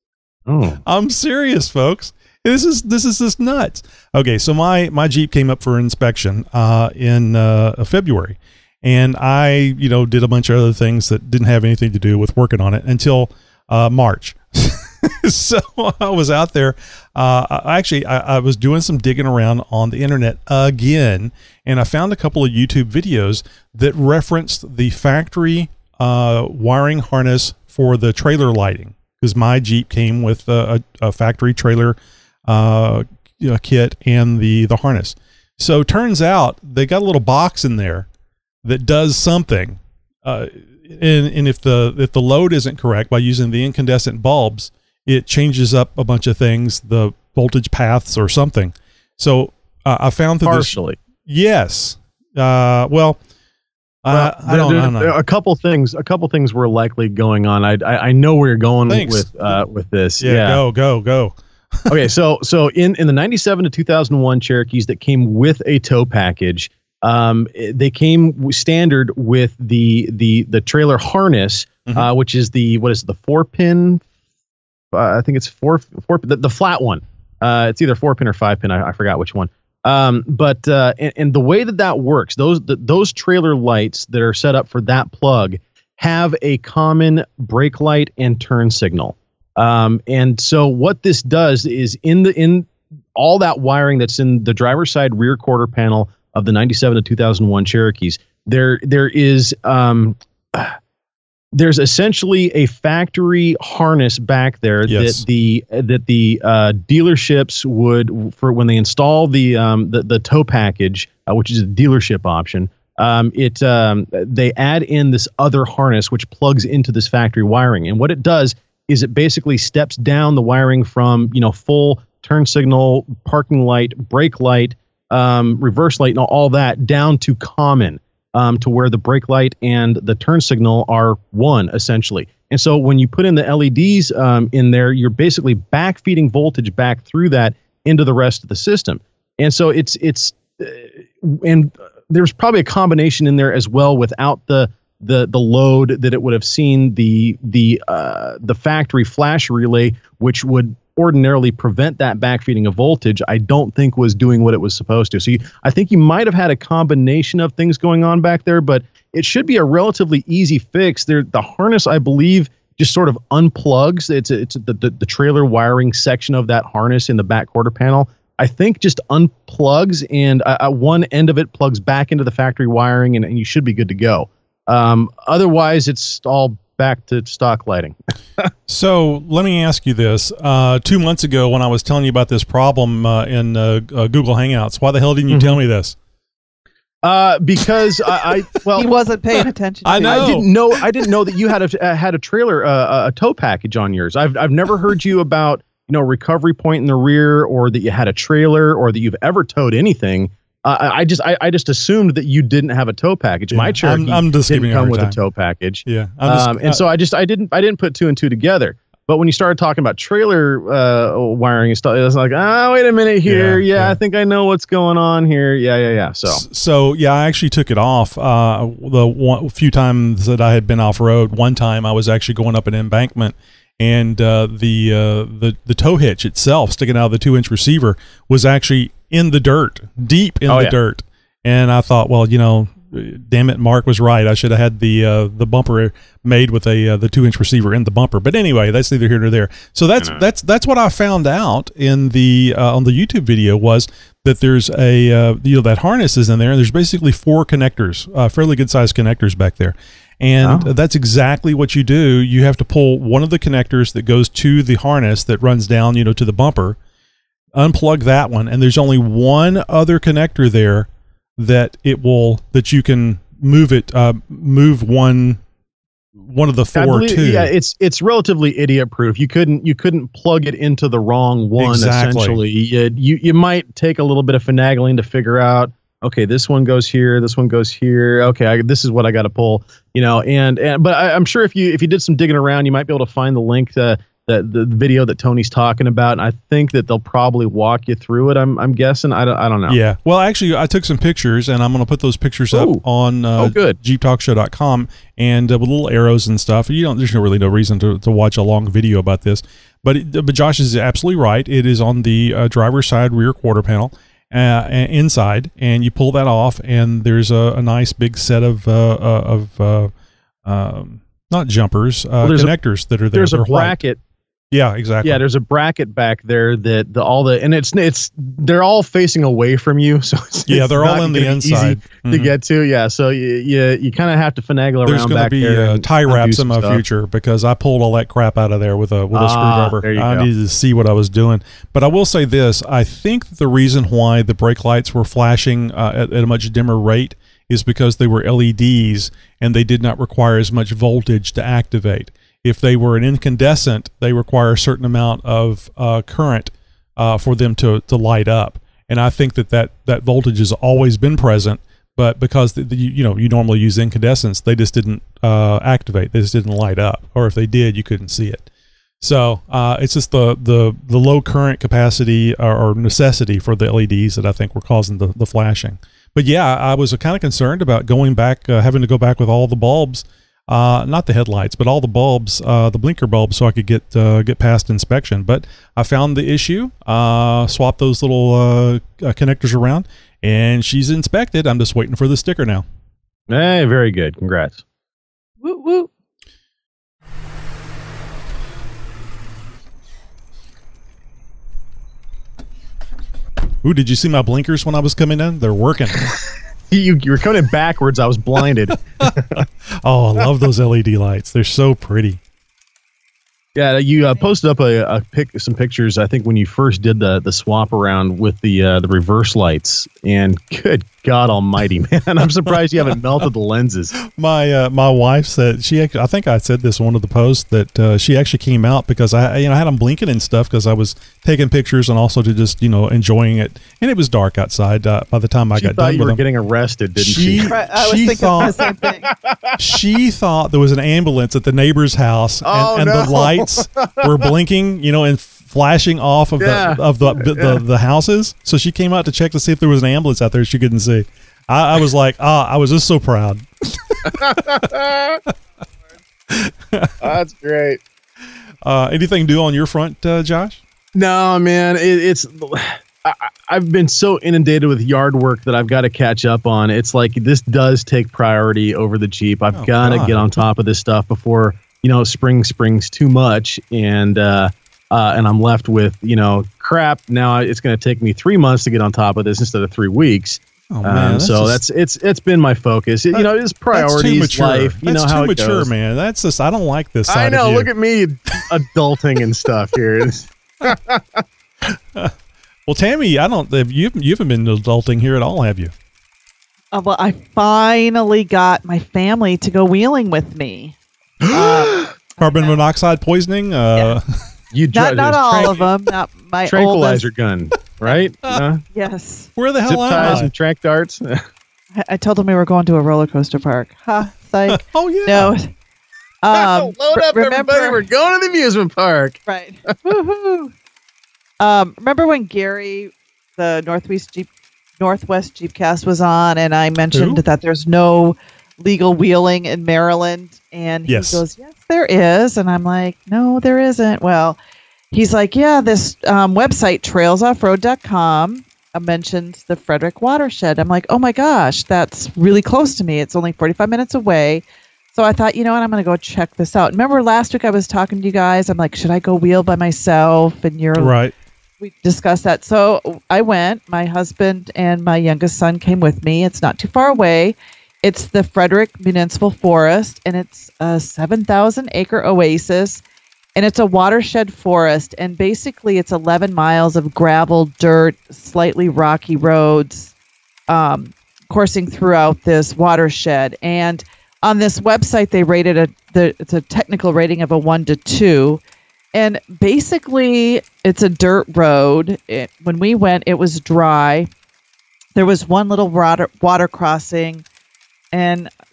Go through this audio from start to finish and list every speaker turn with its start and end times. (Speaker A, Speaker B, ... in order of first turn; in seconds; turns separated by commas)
Speaker A: 0.5-0.8, Speaker B: 0.8-38.1, Speaker B: 38.6-53.2, Speaker A: 50.5-51.0, Speaker B: 54.0-55.2, Speaker A: 54.1-60.6, Speaker B: 58.9-59.6, Speaker B: 60.2-61.3, Speaker A: 61.9-74.0, Speaker A: 74.9-100.8, Speaker A: 101.5-178.4, Speaker B: 104.9-105.2, Speaker B: 178.7-186.0, Speaker A: 185.3-185.6, Speaker A: 187.0-188.9, Speaker C: 188.8-190.4, Speaker B: 189.8-190.5, Speaker A: 190.0-216.4, Speaker B: 203.5-205.2, Speaker B: 205.9-206.8, Speaker B: 213.2-214.0, Speaker B: 216.3-256.8, Speaker A: 230.5-230.8, Speaker A: 240.0-240.2, Speaker A: 250.4-250.7, Speaker B: 257.5-265.4, Speaker B: 266.3-267.5, Speaker A: 266.8-289.8, Speaker B: 271.6-272.4, Speaker B: 289.7-309.9, Speaker A: 292.5-292.8, Speaker A: 293.4-293.8, Speaker B: 310.4-313.8, Speaker A: 312.2-312.5, Speaker A: 313.1-314.0, Speaker B: 314.5-315.2, Speaker A: 315.0-326.8, Speaker B: 320.5-322.3, Speaker B: 324.8-358.5, Speaker A: 329.1-330.3, Speaker B: 359.0-382.7, Speaker A: 383.3-384.6, Speaker C: 385.4-385.9, Speaker B: 393.6-396.1, Speaker A: 396.7-399.4, Speaker B: 399.0-402.2, Speaker A: 403.5-413.9, Speaker B: 414.1-426.2, Speaker A: 425.5-427.5, Speaker B: 427.0-428.6, Speaker C: 427.4-429.1, Speaker A: 428.5-429.5, Speaker B: 429.6-444.4, Speaker A: 432.4-434.3, Speaker A: 436.4-437.6, Speaker A: 444.1-445.2, Speaker B: 446.3-447.0, Speaker A: 447.0-447.8, Speaker B: 448.6-450.6, Speaker A: 450.9-475.7, Speaker B: 459.5-460.4, Speaker B: 470.7-471.6, Speaker B: 473.1-477.7, Speaker A: 477.1-481.2, Speaker B: 481.7-482.1, Speaker B: 482.7-485.7, Speaker C: 486.7-492.6, Speaker A: 491.2-491.9, Speaker B: 492.2-494.2, Speaker A: 494.5-495.6, Speaker C: 494.7-497.0, Speaker A: 496.4-498.6, Speaker C: 498.7-499.3, Speaker B: 499.4-500.3, Speaker A: 499.7-501.2, Speaker C: 501.8-505.5, Speaker B: 504.5-505.3, Speaker C: 506.2-507.8, Speaker A: 506.3-509.2, Speaker C: 509.3-510.5, Speaker C: 511.4-524.4, Speaker B: 516.9-517.2, Speaker B: 520.9-521.2, Speaker C: 524.9-541.0, Speaker B: 540.8-541.1, Speaker C: 541.6-552.8, Speaker C: 553.3-559.9, Speaker C: 560.5-568.4, Speaker C: 568.9-574.1, Speaker C: 575.0-577.2, Speaker C: 577.9-578.3